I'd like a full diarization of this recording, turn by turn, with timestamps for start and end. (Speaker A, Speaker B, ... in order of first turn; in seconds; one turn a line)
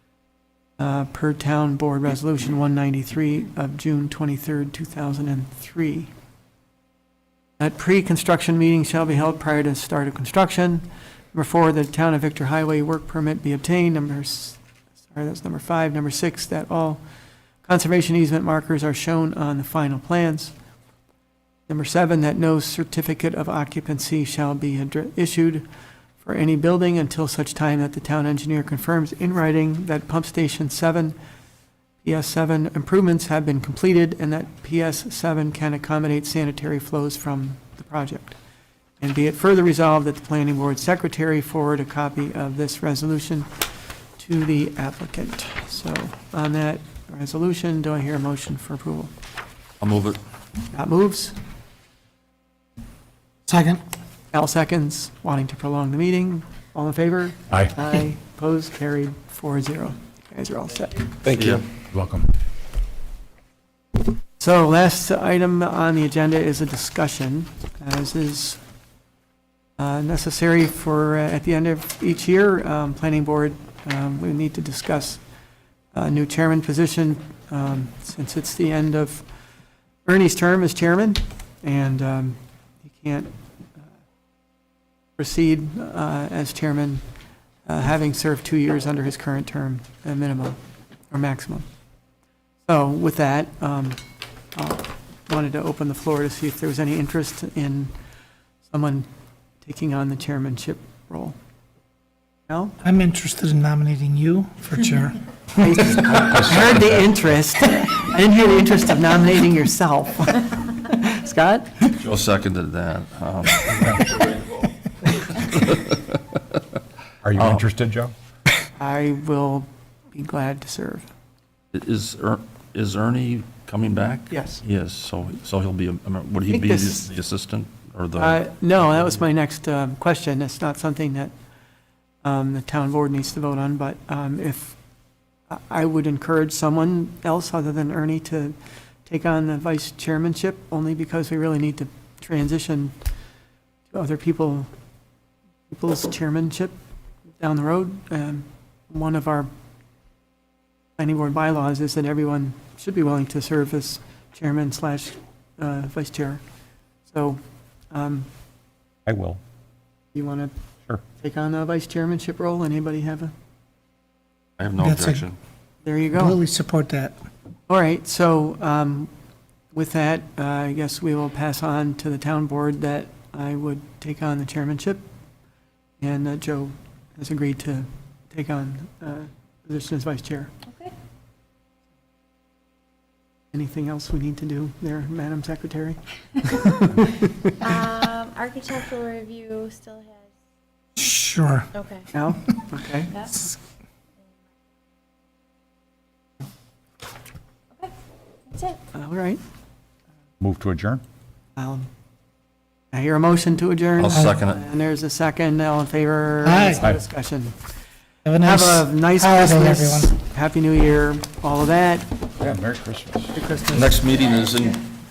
Speaker A: 0.8-6.1
Speaker A: 7.6-17.0
Speaker A: 17.6-20.5
Speaker A: 21.7-25.7
Speaker A: 26.2-31.2
Speaker A: 32.0-38.4
Speaker A: 39.0-43.6
Speaker A: 44.2-49.1
Speaker B: 49.8-50.2
Speaker A: 50.7-51.4
Speaker C: 53.5-53.8
Speaker A: 54.3-61.1
Speaker B: 61.3-61.6
Speaker D: 61.4-62.3
Speaker A: 64.4-68.6
Speaker A: 69.8-75.2
Speaker A: 75.9-79.3
Speaker A: 80.0-83.3
Speaker A: 85.2-87.0
Speaker A: 87.7-90.6
Speaker A: 91.1-91.7
Speaker A: 92.7-94.0
Speaker A: 94.5-98.0
Speaker A: 98.7-99.1
Speaker A: 99.6-101.4
Speaker A: 102.5-102.8
Speaker C: 102.8-105.9
Speaker A: 105.6-111.9
Speaker D: 106.2-106.5
Speaker B: 112.0-114.3
Speaker D: 113.7-114.0
Speaker B: 115.3-116.4
Speaker D: 117.2-118.1
Speaker B: 117.4-117.6
Speaker A: 118.8-121.1
Speaker B: 121.7-129.1
Speaker A: 124.3-124.6
Speaker A: 126.5-127.1
Speaker A: 128.2-131.3
Speaker A: 132.2-134.8
Speaker A: 135.5-143.0
Speaker A: 143.9-144.7
Speaker A: 145.7-146.8
Speaker A: 147.4-149.5
Speaker A: 151.0-156.4
Speaker A: 157.1-157.4
Speaker A: 157.9-158.3
Speaker D: 159.1-159.4
Speaker A: 160.1-160.5
Speaker A: 161.1-163.3
Speaker B: 164.6-165.4
Speaker C: 164.8-165.2
Speaker A: 165.8-166.4
Speaker C: 166.2-167.2
Speaker A: 167.7-169.1
Speaker A: 169.7-175.0
Speaker A: 176.0-180.5
Speaker A: 183.5-187.9
Speaker E: 187.6-190.2
Speaker C: 191.0-191.7
Speaker E: 191.7-192.1
Speaker A: 192.1-193.3
Speaker E: 198.5-198.8
Speaker A: 198.9-199.4
Speaker D: 200.4-201.0
Speaker A: 201.6-201.9
Speaker A: 202.9-207.6
Speaker B: 204.0-204.6
Speaker C: 206.4-206.8
Speaker C: 208.2-210.1
Speaker A: 208.4-212.1
Speaker D: 212.4-213.4
Speaker A: 213.3-214.0
Speaker B: 213.7-214.8